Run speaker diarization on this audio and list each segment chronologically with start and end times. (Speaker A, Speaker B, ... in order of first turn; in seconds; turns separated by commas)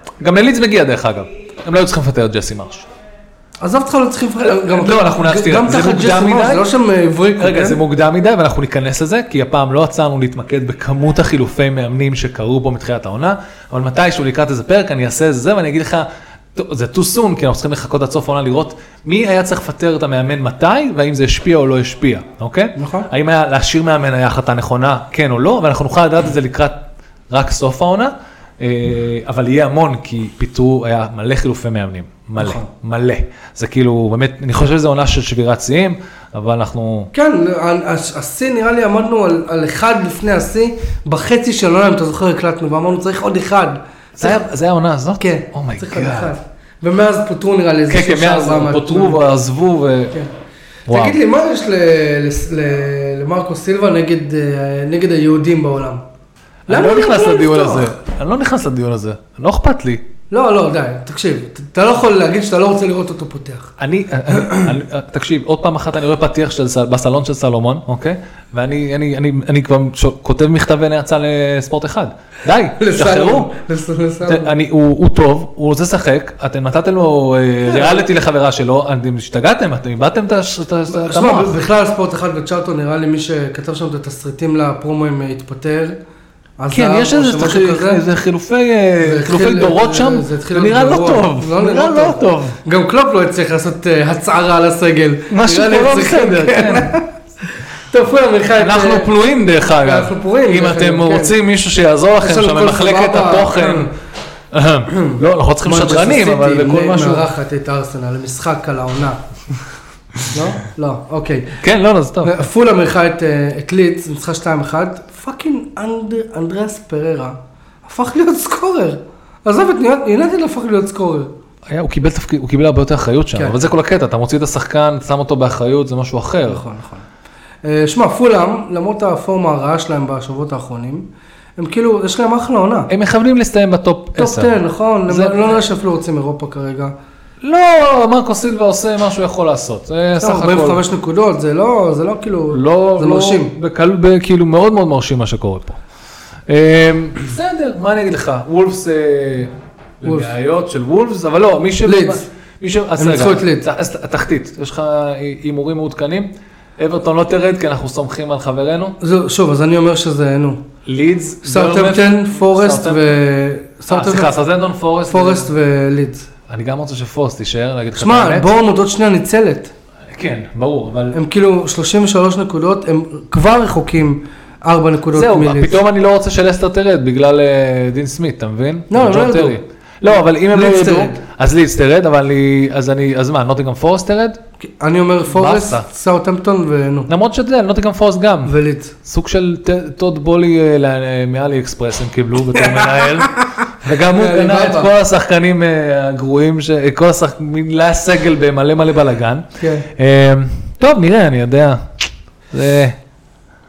Speaker A: 0.2-2.9, Speaker B: 3.6-7.8, Speaker A: 4.4-6.7, Speaker A: 7.4-37.1, Speaker B: 22.8-23.1, Speaker B: 32.4-32.7, Speaker B: 37.1-44.4, Speaker A: 44.2-46.3, Speaker B: 45.2-49.2, Speaker A: 47.9-50.1, Speaker A: 50.9-51.2, Speaker B: 50.9-56.0, Speaker A: 56.7-60.0, Speaker B: 56.7-57.9, Speaker B: 60.3-63.7, Speaker A: 63.8-73.5, Speaker B: 64.3-64.7, Speaker B: 72.8-74.5, Speaker A: 74.2-81.6, Speaker B: 77.7-78.0, Speaker B: 80.9-86.0, Speaker B: 86.6-88.0, Speaker A: 86.7-92.6, Speaker B: 89.0-97.1, Speaker A: 95.3-97.0, Speaker B: 97.9-99.1, Speaker A: 98.6-103.9, Speaker B: 99.7-101.3, Speaker B: 102.2-103.9, Speaker A: 104.5-107.3, Speaker B: 104.9-109.2, Speaker B: 110.3-111.6, Speaker A: 111.6-112.4, Speaker B: 112.2-121.3, Speaker A: 121.7-126.6, Speaker B: 123.3-123.7, Speaker B: 126.5-127.0, Speaker B: 127.6-132.9, Speaker A: 132.9-135.6, Speaker B: 134.2-136.9, Speaker A: 137.4-140.8, Speaker B: 140.2-143.5, Speaker A: 142.5-145.8, Speaker A: 146.5-159.0, Speaker B: 150.0-150.3, Speaker B: 151.8-152.2, Speaker B: 153.0-153.7, Speaker B: 159.0-160.6, Speaker A: 160.8-163.2, Speaker B: 161.4-164.3, Speaker A: 163.9-165.5, Speaker B: 165.1-166.3, Speaker A: 166.5-168.6, Speaker B: 167.9-169.7, Speaker A: 170.1-171.2, Speaker B: 171.1-175.8, Speaker A: 175.1-184.4, Speaker B: 178.9-179.6, Speaker B: 180.5-181.2, Speaker B: 184.6-187.1, Speaker A: 185.3-185.8, Speaker A: 187.1-203.0, Speaker B: 188.4-188.9, Speaker B: 192.8-193.1, Speaker B: 194.0-194.9, Speaker B: 199.6-199.9